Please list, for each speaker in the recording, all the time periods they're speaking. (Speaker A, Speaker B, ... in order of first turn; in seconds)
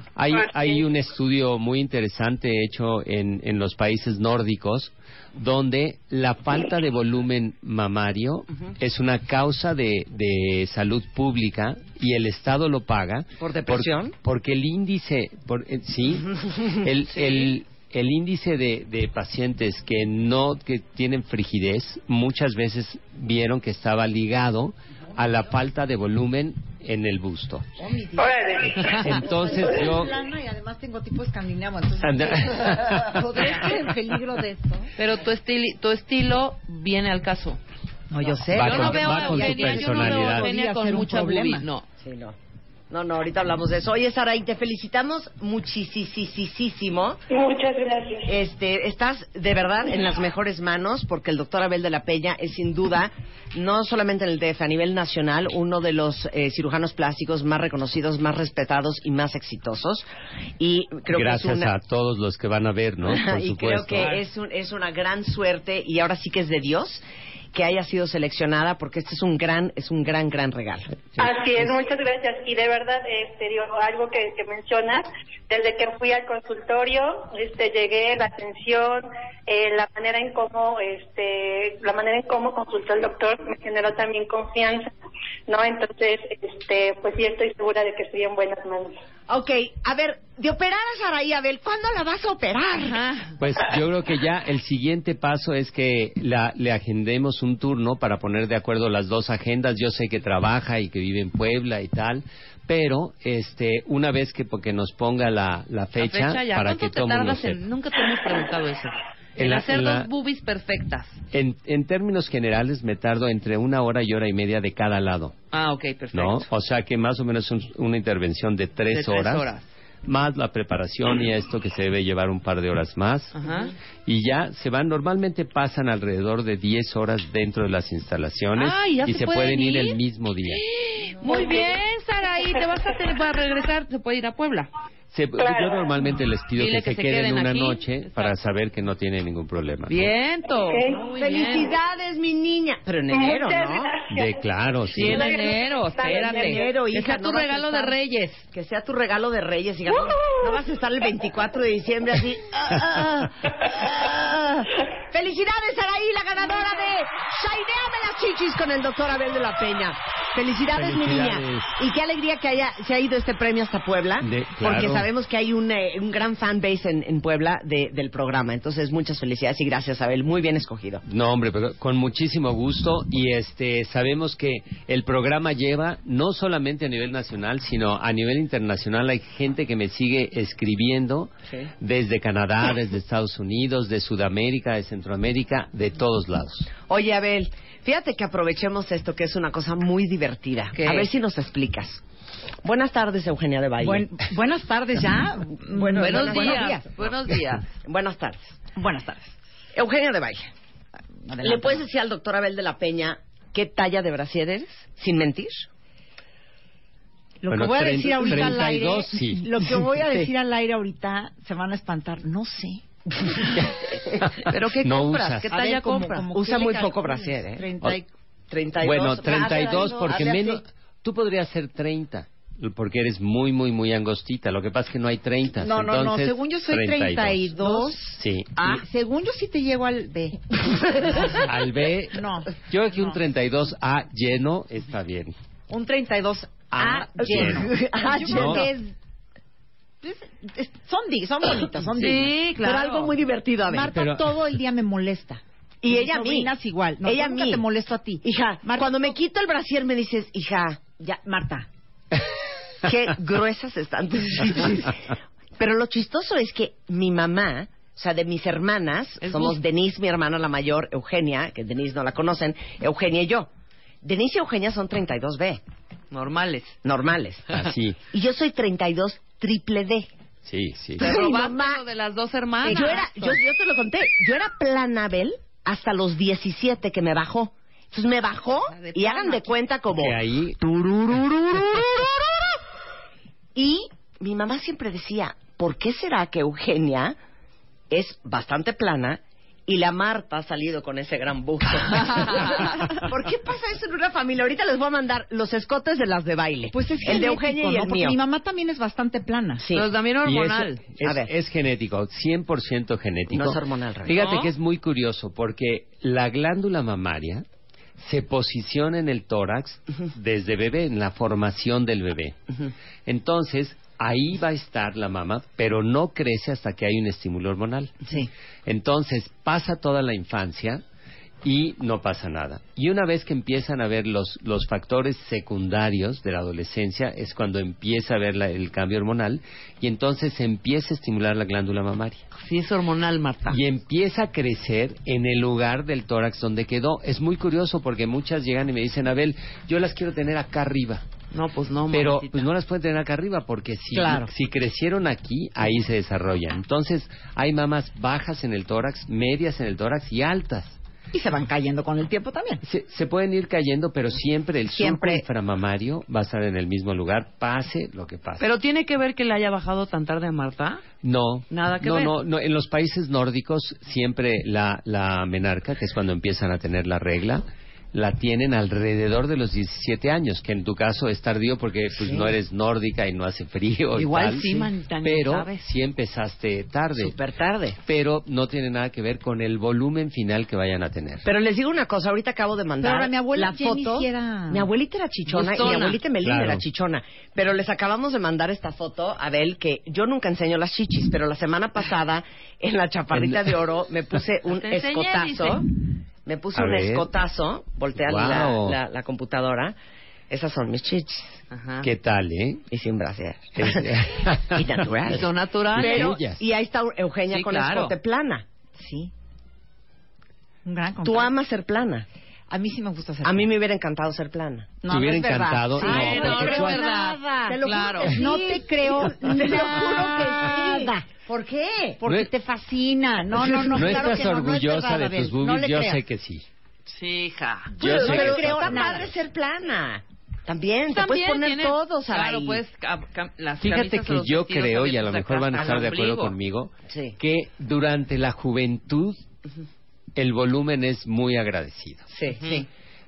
Speaker A: 0.1-27.6, 28.8-30.2, 32.0-33.7, 38.5-40.5, 61.1-64.2, 93.4-107.6, 109.4-110.1, 111.3-115.4, 116.1-119.5, 120.0-123.4, 124.0-130.6, 135.1-140.1, 144.1-145.3, 160.7-161.7, 164.2-165.1, 171.0-186.7, 207.5-209.6, 214.2-215.5, 218.8-227.6, 228.1-228.8, 231.4-235.3, 236.7-237.7, 238.3-238.7, 243.9-244.4, 267.5-268.0, 270.4-271.2, 279.9-280.6, 300.2-307.4, 308.0-312.4, 313.1-318.1, 318.6-320.8, 321.4-332.2, 333.5-341.1, 341.9-350.8, 352.6-358.5, 361.0-377.1, 377.8-381.2, 386.2-386.6, 396.5-397.1, 397.9-398.8, 401.8-402.6, 403.6-405.2, 405.7-406.4, 414.9-416.9, 422.0-422.3, 423.7-426.4, 427.7-429.1, 433.6-439.2, 440.1-442.1
Speaker B: 0.3-0.8, 28.2-29.0, 47.3-48.3, 71.2-84.9, 85.5-89.0, 131.2-131.8, 135.4-135.9, 140.6-141.1, 143.1-144.4, 145.0-146.7
Speaker C: 13.4-14.1, 42.0-42.4, 42.9-47.2, 48.2-60.0, 60.6-61.7, 63.0-71.0, 89.3-93.0, 141.1-143.9, 145.9-148.0, 148.5-171.0, 186.9-192.0, 192.6-194.0, 195.7-196.8, 197.8-198.6, 199.7-200.5, 201.4-205.7, 216.3-217.7, 218.5-220.6, 227.6-228.8, 236.8-238.7, 242.6-243.9, 245.8-246.5, 247.0-247.6, 248.2-250.9, 252.8-263.5, 264.0-265.6, 266.8-267.5, 268.1-270.1, 271.0-271.8, 272.6-282.4, 283.5-287.1, 287.9-298.2, 299.6-299.9, 301.0-301.3, 303.3-304.4, 377.0-377.8, 381.2-399.8, 400.3-401.4, 402.7-408.4, 411.0-412.1, 413.2-414.7, 415.8-422.0, 423.4-424.1, 427.7-432.6, 436.9-437.1, 442.1-442.6
Speaker D: 27.8-34.9, 38.1-41.6, 193.8-196.9, 198.8-199.3, 201.2-201.8, 207.4-214.2, 215.5-218.1, 219.2-220.2, 225.6-228.0, 228.6-231.5, 232.1-233.1, 235.7-238.9, 240.0-242.5, 243.7-249.1, 251.0-251.7, 272.6-273.4, 296.7-299.6, 343.9-344.3, 351.1-352.6, 354.7-355.2, 382.8-384.7, 408.8-409.1, 410.6-411.3, 412.5-413.5, 414.8-421.3, 421.9-426.0, 427.8-429.1
Speaker E: 35.0-37.6, 38.5-41.9, 92.8-93.3, 106.0-111.2, 115.5-116.5, 118.9-119.7, 123.3-123.7, 128.6-134.7, 136.6-138.3, 139.9-141.7, 144.9-148.4, 190.7-191.1, 195.9-197.7, 214.5-216.3, 242.0-243.1, 259.2-259.6, 266.1-266.8, 271.0-273.3, 299.7-300.8, 304.1-304.5, 332.4-333.6, 341.3-342.5, 358.4-360.9, 361.5-362.1, 373.9-375.6, 385.3-386.0, 394.5-395.6, 401.5-401.9, 405.0-406.2, 407.3-407.9, 415.8-418.2, 426.9-427.7, 430.9-436.3, 442.4-442.6